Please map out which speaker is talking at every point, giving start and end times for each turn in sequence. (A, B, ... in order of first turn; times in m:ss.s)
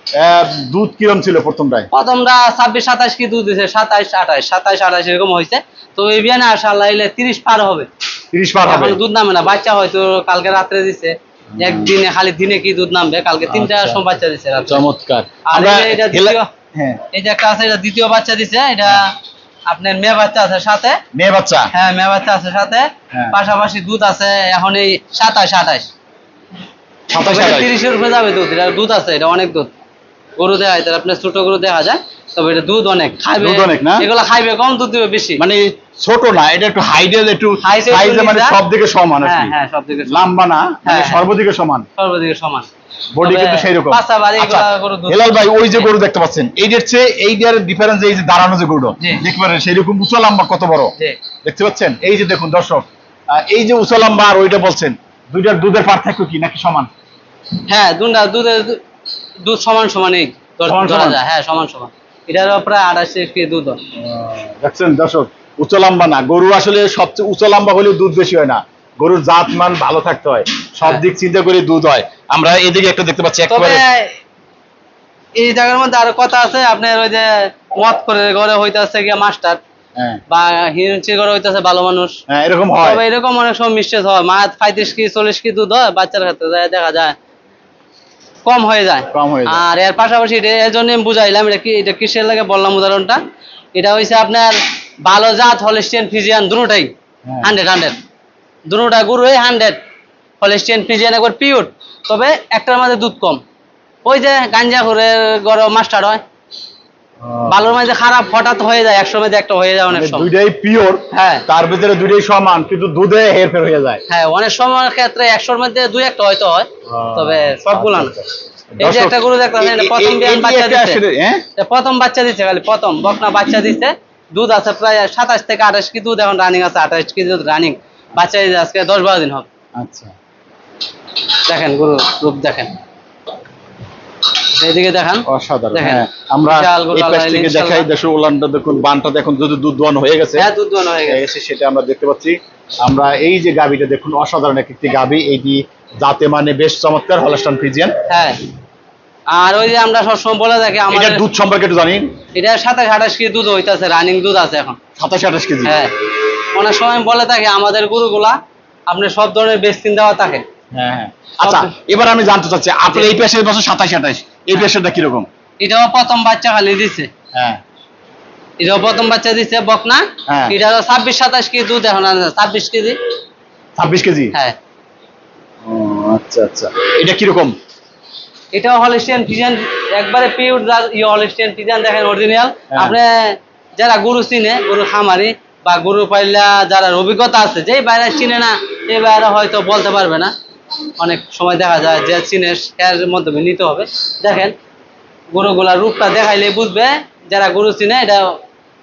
0:00.1-0:01.9 A
0:01.9-0:07.9 B
0:08.3-0:09.0 A
0:08.6-0:14.8 B
0:11.5-0:11.9 A
0:13.5-0:14.1 A
0:14.6-0:17.0 A
0:15.5-0:16.5 B
0:17.1-0:19.2 B
0:19.7-0:21.0 B
0:21.1-0:21.7 A
0:21.7-0:25.9 B
0:27.1-0:27.7 A
0:27.2-0:29.7 B
0:30.4-0:35.4 B
0:33.4-0:34.1 A
0:35.4-0:39.5 A
0:37.6-0:38.6 B
0:39.2-0:40.3 B
0:40.1-0:41.9 A
0:40.8-0:41.2 B
0:42.0-0:42.7 B
0:43.1-0:56.9 A
0:43.2-0:45.9 B
0:57.7-0:58.8 B
0:59.4-1:03.8 B
1:00.6-1:01.2 A
1:03.9-1:13.8 A
1:13.5-1:14.2 B
1:15.4-1:19.6 B
1:20.0-1:20.2 A
1:20.3-1:22.2 B
1:22.3-1:23.0 A
1:22.8-1:27.2 B
1:28.4-1:33.2 B
1:29.1-1:29.6 A
1:33.7-1:36.9 B
1:37.2-1:37.5 A
1:37.4-1:38.0 B
1:38.7-1:39.8 B
1:40.4-1:43.4 B
1:44.0-1:46.2 B
1:47.2-1:47.8 A
1:47.5-1:50.3 B
1:49.9-1:54.0 A
1:51.1-1:51.4 B
1:54.1-1:58.1 B
1:56.9-2:01.4 A
1:58.8-2:01.0 B
2:01.6-2:09.5 B
2:09.8-2:10.1 A
2:11.5-2:12.7 B
2:14.4-2:17.9 B
2:15.3-2:20.5 A
2:20.4-2:21.3 B
2:21.0-2:28.0 A
2:28.1-2:28.4 B
2:29.3-2:31.2 B
2:30.9-2:32.1 A
2:32.3-2:34.8 B
2:35.0-2:35.8 A
2:35.6-2:38.4 B
2:38.9-2:40.4 B
2:40.7-2:45.3 A
2:41.4-2:41.7 B
2:45.6-2:47.1 B
2:47.3-2:47.6 A
2:48.6-2:53.0 B
2:50.3-2:50.6 A
2:53.8-2:54.3 A
2:55.6-2:57.5 A
2:58.5-3:10.3 B
3:02.7-3:03.0 A
3:11.0-3:14.5 B
3:15.3-3:18.4 B